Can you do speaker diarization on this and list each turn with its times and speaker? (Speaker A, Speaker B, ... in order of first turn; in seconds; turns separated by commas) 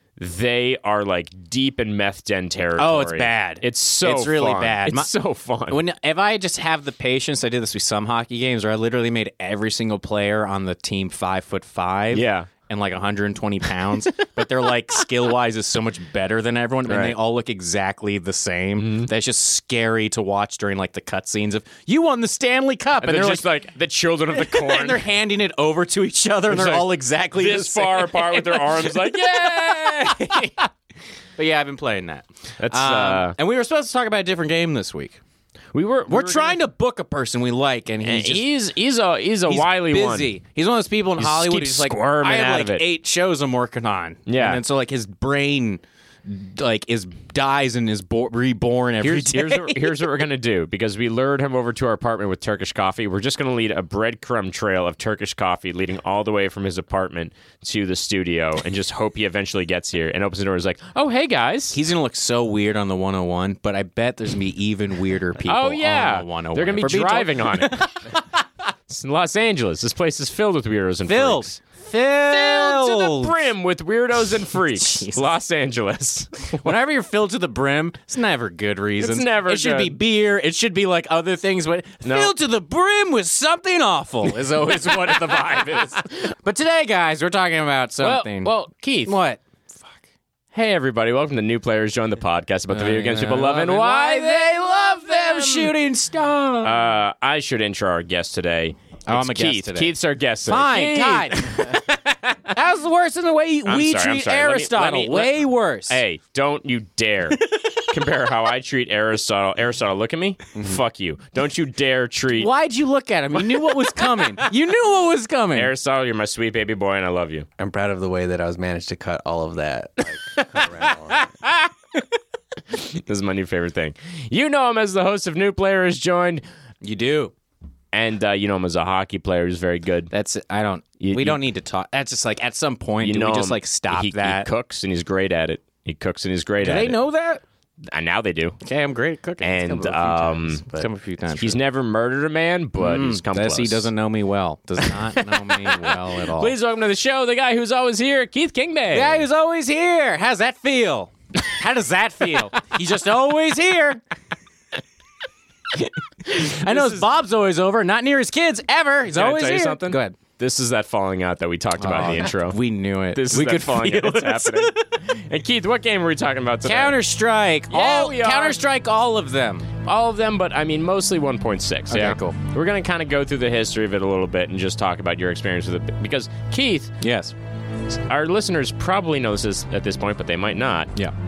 Speaker A: 0.2-5.8, Speaker B: 2.8-5.1, Speaker B: 5.7-23.4, Speaker A: 12.1-12.5, Speaker A: 16.9-17.1, Speaker A: 18.8-19.1, Speaker A: 23.0-25.0, Speaker B: 24.4-30.6, Speaker A: 26.5-30.5, Speaker B: 31.4-35.2, Speaker A: 32.6-33.3, Speaker A: 35.7-36.6, Speaker B: 36.1-38.5, Speaker A: 38.0-40.3, Speaker B: 39.5-50.1, Speaker A: 41.2-42.8, Speaker A: 44.3-44.6, Speaker A: 49.0-61.8, Speaker B: 61.7-68.2, Speaker A: 65.4-67.9, Speaker A: 68.9-71.5, Speaker B: 71.1-73.3, Speaker A: 72.2-76.5, Speaker B: 74.7-75.2, Speaker B: 76.6-88.5, Speaker A: 79.0-80.0, Speaker A: 82.0-82.3, Speaker A: 84.3-86.3, Speaker A: 88.0-89.2, Speaker B: 89.0-90.0, Speaker A: 90.5-95.7, Speaker B: 92.7-96.8, Speaker A: 96.6-102.3, Speaker B: 99.1-99.9, Speaker B: 100.5-101.8, Speaker B: 102.5-106.0, Speaker A: 103.7-112.5, Speaker C: 110.5-110.8, Speaker B: 112.3-115.7, Speaker A: 113.5-114.3, Speaker A: 115.5-117.5, Speaker C: 117.6-121.3, Speaker A: 122.7-126.4, Speaker B: 126.8-127.3, Speaker A: 127.9-130.1, Speaker B: 130.1-134.5, Speaker A: 131.0-131.4, Speaker A: 133.0-137.0, Speaker B: 136.6-137.4, Speaker A: 137.9-138.6, Speaker B: 138.6-141.6, Speaker A: 139.4-140.6, Speaker A: 141.3-143.9, Speaker B: 142.8-146.5, Speaker A: 145.2-149.3, Speaker B: 148.9-154.0, Speaker B: 156.2-160.2, Speaker A: 156.3-157.0, Speaker A: 159.1-162.6, Speaker B: 161.8-164.9, Speaker A: 163.1-166.9, Speaker B: 166.6-169.7, Speaker A: 167.7-168.6, Speaker A: 169.8-176.9, Speaker B: 171.9-172.4, Speaker B: 177.0-177.3, Speaker A: 178.1-180.9